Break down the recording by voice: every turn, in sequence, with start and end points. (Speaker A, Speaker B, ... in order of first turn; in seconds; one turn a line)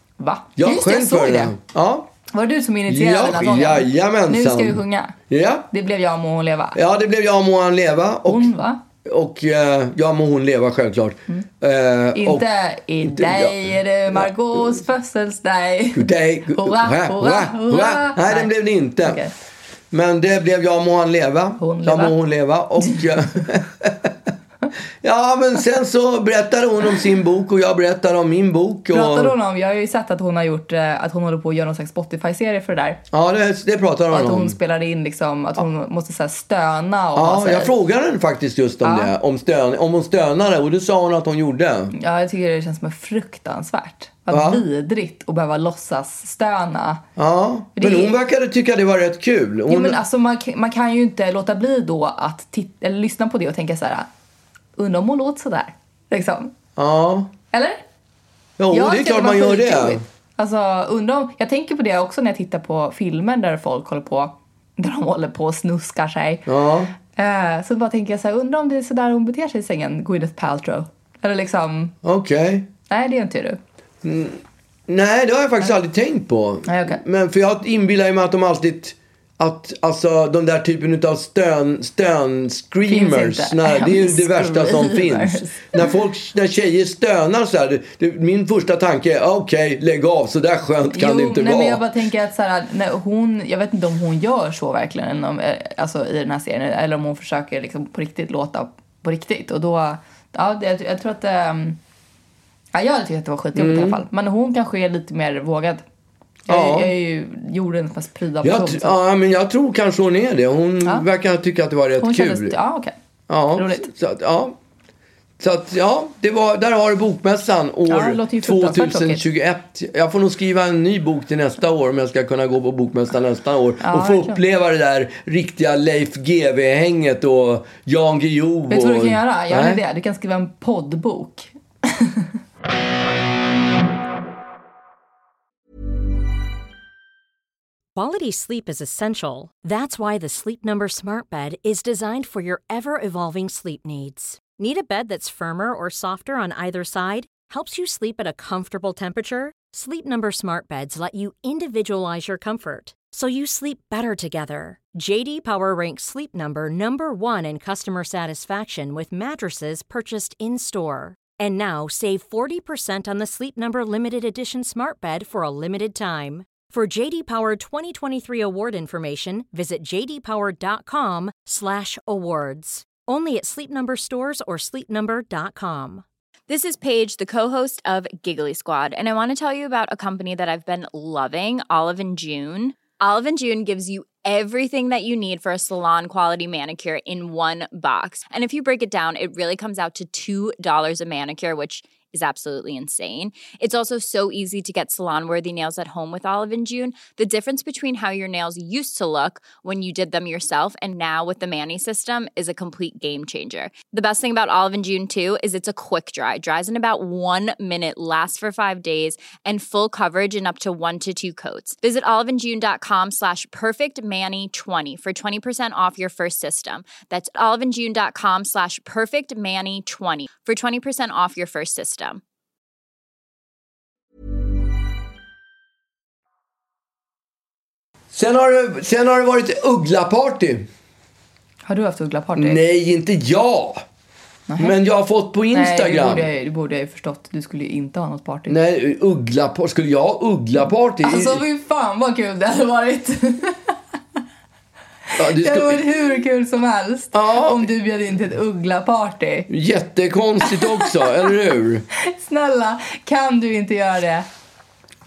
Speaker A: 0.2-1.6
Speaker B: 0.6-2.1
Speaker A: 2.3-5.2
Speaker B: 2.9-5.7
Speaker A: 5.7-6.8
Speaker B: 6.8-8.5
Speaker A: 8.3-8.8
Speaker B: 9.0-12.5
Speaker A: 12.1-18.5
Speaker B: 13.0-14.3
Speaker B: 15.9-19.2
Speaker A: 19.0-19.3
Speaker B: 19.9-24.1
Speaker A: 21.6-22.2
Speaker B: 25.0-29.4
Speaker A: 28.9-33.0
Speaker B: 33.1-34.6
Speaker A: 34.1-37.7
Speaker B: 37.1-41.9
Speaker A: 38.8-39.1
Speaker A: 41.9-47.0
Speaker B: 44.3-44.6
Speaker B: 47.2-50.0
Speaker A: 47.8-48.1
Speaker A: 49.7-54.1
Speaker A: 54.8-56.5
Speaker B: 56.8-57.3
Speaker A: 57.5-57.8
Speaker B: 58.6-60.0
Speaker A: 58.7-66.5
Speaker B: 66.5-66.9
Speaker A: 67.0-72.0
Speaker B: 72.0-72.7
Speaker A: 72.9-73.6
Speaker B: 74.0-91.8
Speaker A: 76.7-77.0
Speaker A: 82.9-85.9
Speaker A: 90.9-101.8
Speaker A: 102.7-105.8
Speaker B: 103.5-104.0
Speaker A: 106.5-109.0
Speaker B: 106.5-106.9
Speaker B: 108.4-112.6
Speaker A: 112.0-112.9
Speaker B: 113.3-114.6
Speaker A: 113.5-113.9
Speaker B: 115.4-129.8
Speaker A: 117.9-119.3
Speaker A: 123.8-124.4
Speaker A: 128.7-132.3
Speaker C: 137.9-176.0
Speaker D: 176.5-222.2
Speaker B: 228.1-230.7
Speaker A: 231.7-232.6
Speaker B: 232.4-233.8
Speaker A: 234.5-234.8
Speaker B: 234.6-236.3
Speaker A: 235.5-238.6
Speaker B: 238.5-241.4
Speaker A: 241.0-243.8
Speaker A: 245.1-249.5
Speaker B: 245.2-245.8
Speaker B: 247.1-247.7
Speaker B: 249.5-251.8
Speaker A: 250.4-251.2
Speaker A: 252.0-254.3